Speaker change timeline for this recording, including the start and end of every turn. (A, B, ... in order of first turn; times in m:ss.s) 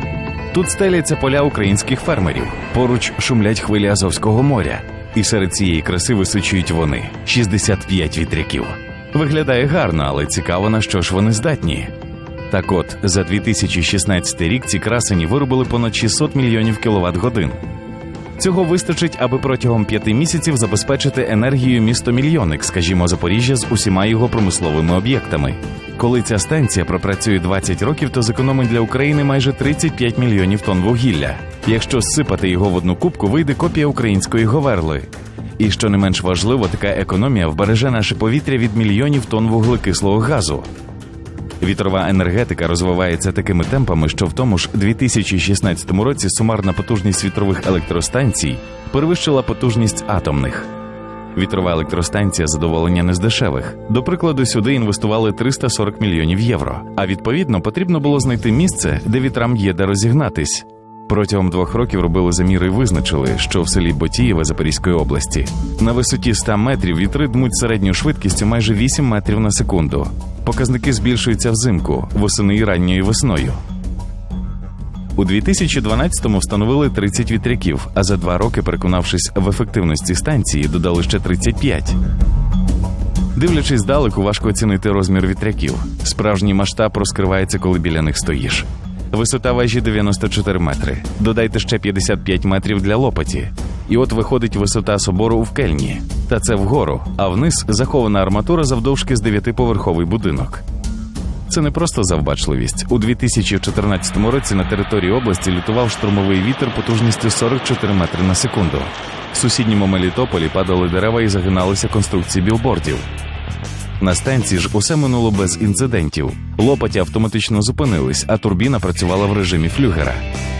0:00.5-0:11.9 A
0:12.5-0:17.6 A
0:18.4-0:40.7 A
0:41.6-0:50.7 A
0:51.3-1:13.6 A
1:15.2-1:22.0 A
1:23.3-1:40.6 A
1:41.5-1:53.0 A
1:54.0-2:00.2 A